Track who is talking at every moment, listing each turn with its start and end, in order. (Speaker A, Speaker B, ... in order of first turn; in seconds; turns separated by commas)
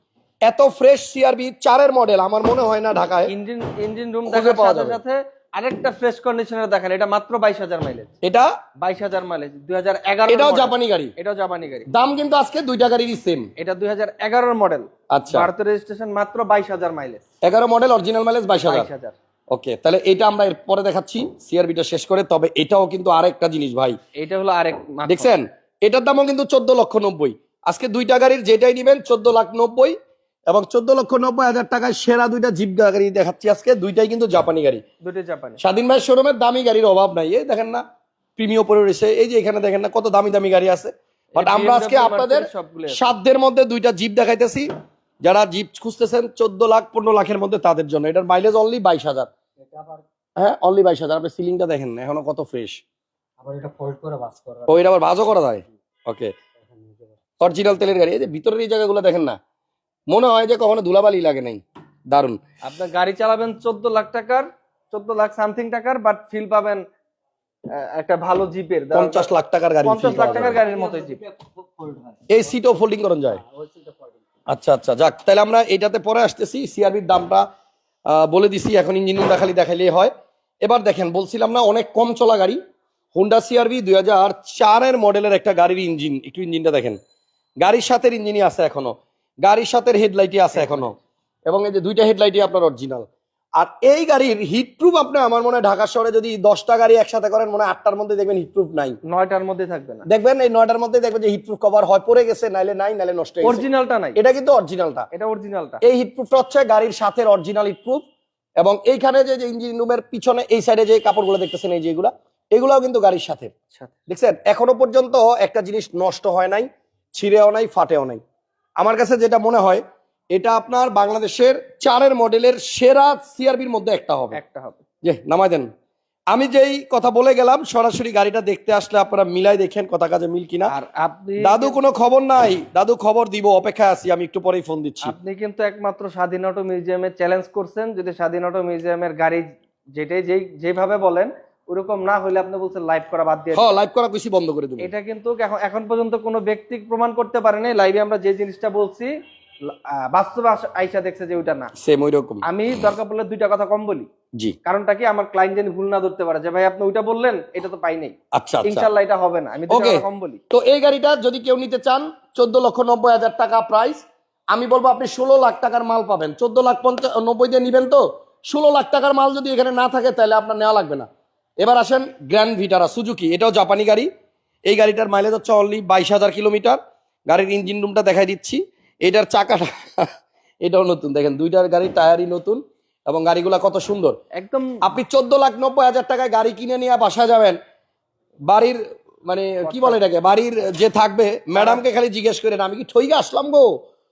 Speaker A: 0.4-3.3, Speaker B: 3.2-8.1, Speaker A: 4.2-5.0, Speaker A: 8.2-8.5, Speaker B: 8.8-11.9, Speaker A: 10.3-11.1, Speaker A: 11.9-13.5, Speaker B: 13.6-17.2, Speaker A: 15.1-15.5, Speaker A: 17.4-18.9, Speaker B: 18.6-19.1, Speaker A: 19.5-23.9, Speaker B: 24.1-25.3, Speaker A: 25.0-29.9, Speaker A: 30.5-34.8, Speaker B: 35.0-35.6, Speaker A: 35.6-37.8, Speaker A: 38.4-44.7, Speaker B: 41.3-43.0, Speaker A: 45.2-49.3, Speaker C: 49.6-50.0, Speaker A: 50.4-52.8, Speaker C: 53.4-54.9, Speaker A: 54.7-56.3, Speaker C: 56.6-57.1, Speaker A: 57.4-59.4, Speaker A: 60.1-62.4, Speaker B: 62.6-66.8, Speaker B: 67.7-69.3, Speaker A: 68.9-70.6, Speaker B: 69.8-71.2, Speaker C: 70.0-72.2, Speaker A: 72.3-73.4, Speaker C: 73.3-74.2, Speaker A: 74.5-77.4, Speaker A: 78.1-80.1, Speaker A: 80.6-82.6, Speaker A: 83.1-87.0, Speaker A: 87.6-90.9, Speaker B: 90.5-90.9, Speaker A: 91.5-99.0, Speaker B: 99.0-100.0, Speaker A: 100.0-105.1, Speaker B: 103.4-104.2, Speaker B: 105.1-105.8, Speaker A: 105.8-108.0, Speaker A: 108.6-113.5, Speaker A: 114.1-118.2, Speaker A: 118.8-124.4, Speaker B: 124.3-124.8, Speaker A: 125.0-125.7, Speaker A: 126.3-130.7, Speaker B: 130.7-131.8, Speaker A: 131.4-135.1, Speaker B: 135.0-143.7, Speaker A: 143.5-144.9, Speaker B: 144.8-149.1, Speaker B: 149.6-151.7, Speaker A: 151.8-152.4, Speaker B: 152.4-154.1, Speaker B: 154.6-160.4, Speaker A: 158.3-158.9, Speaker A: 159.7-171.1, Speaker A: 171.6-174.1, Speaker A: 174.7-180.1, Speaker A: 180.6-184.2, Speaker B: 184.3-184.8, Speaker A: 184.8-187.6, Speaker A: 188.4-193.8, Speaker B: 189.6-190.0, Speaker B: 191.5-191.8